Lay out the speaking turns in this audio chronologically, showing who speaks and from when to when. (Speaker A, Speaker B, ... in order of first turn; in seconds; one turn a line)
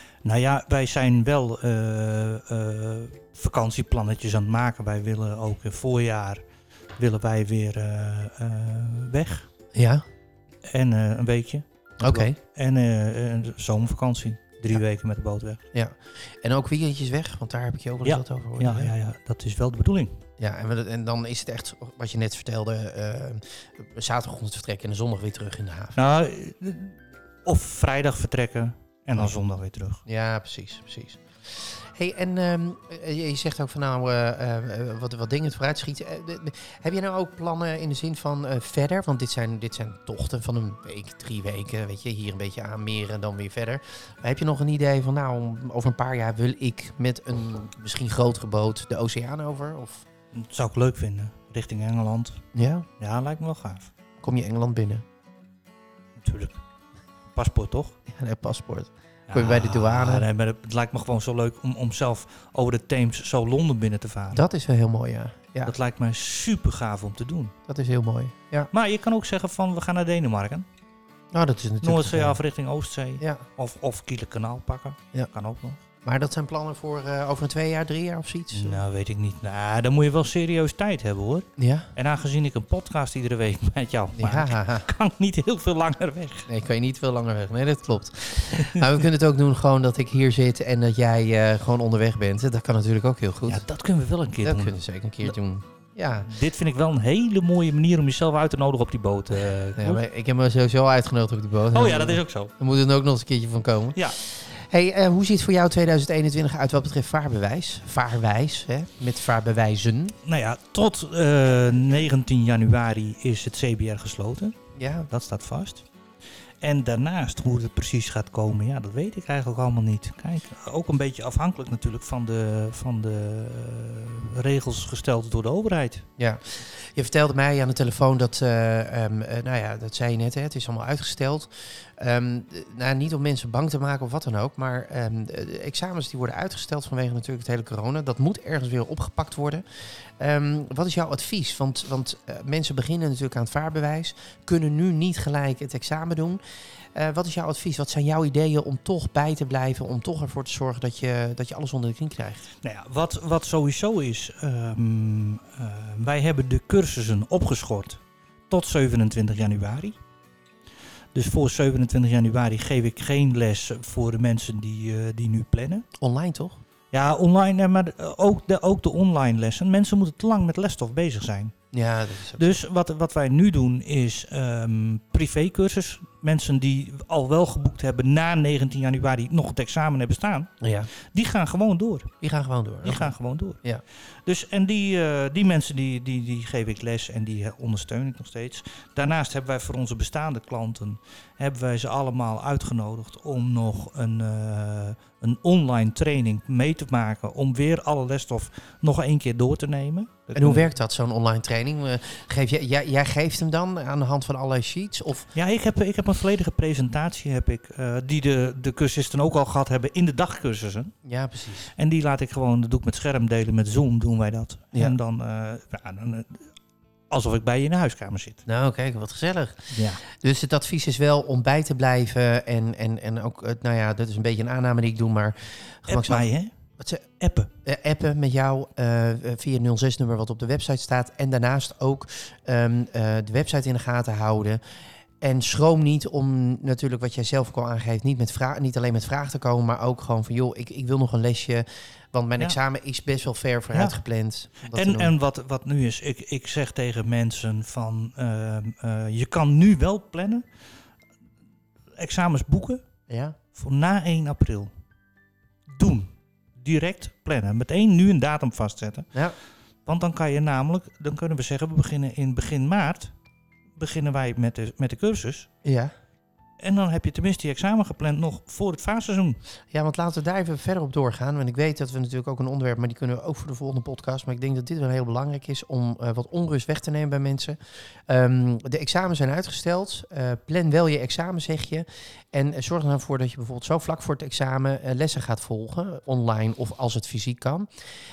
Speaker A: 0.2-6.4
Speaker A: 7.0-9.5
Speaker B: 9.8-10.0
Speaker A: 10.7-15.6
Speaker B: 12.0-12.4
Speaker B: 15.7-18.9
Speaker A: 18.1-20.2
Speaker B: 20.4-26.0
Speaker A: 26.0-30.0
Speaker B: 30.1-50.1
Speaker A: 50.3-52.4
Speaker B: 52.5-52.9
Speaker A: 53.0-53.9
Speaker B: 54.2-55.0
Speaker A: 56.2-56.6
Speaker A: 57.4-58.0
Speaker B: 58.1-60.2
Speaker A: 59.3-64.4
Speaker B: 64.3-65.8
Speaker A: 65.7-67.5
Speaker B: 67.7-68.7
Speaker A: 68.7-70.7
Speaker B: 71.3-72.4
Speaker A: 71.8-75.8
Speaker B: 73.2-73.5
Speaker B: 76.0-78.8
Speaker A: 78.5-86.5
Speaker B: 81.6-81.9
Speaker B: 84.2-84.9
Speaker B: 86.5-93.6
Speaker A: 88.5-88.9
Speaker A: 93.5-95.3
Speaker B: 94.4-96.3
Speaker A: 96.2-100.0
Speaker B: 99.8-110.1
Speaker A: 101.7-102.5
Speaker A: 110.2-114.6
Speaker B: 114.8-115.1
Speaker A: 115.1-115.8
Speaker A: 116.6-126.0
Speaker B: 126.2-139.7
Speaker B: 140.2-146.4
Speaker B: 146.9-152.5
Speaker A: 152.6-160.0
Speaker A: 161.1-165.8
Speaker B: 166.0-166.6
Speaker A: 166.9-171.5
Speaker B: 171.7-172.6
Speaker A: 172.4-180.5
Speaker B: 180.6-180.9
Speaker A: 181.1-182.1
Speaker B: 182.2-183.1
Speaker A: 182.8-183.6
Speaker A: 184.3-200.7
Speaker B: 200.3-205.3
Speaker A: 205.3-210.9
Speaker B: 211.1-211.7
Speaker A: 211.7-216.5
Speaker A: 217.1-218.4
Speaker B: 218.5-226.3
Speaker A: 219.7-220.0
Speaker A: 225.9-226.5
Speaker B: 226.8-227.0
Speaker A: 227.2-227.5
Speaker B: 227.7-234.6
Speaker B: 235.2-245.2
Speaker A: 243.7-244.0
Speaker A: 244.7-250.4
Speaker A: 252.0-252.8
Speaker B: 253.1-253.4
Speaker A: 253.6-254.7
Speaker A: 255.8-259.1
Speaker A: 259.9-263.1
Speaker A: 263.8-265.5
Speaker B: 265.6-265.9
Speaker A: 266.6-269.4
Speaker B: 269.7-287.7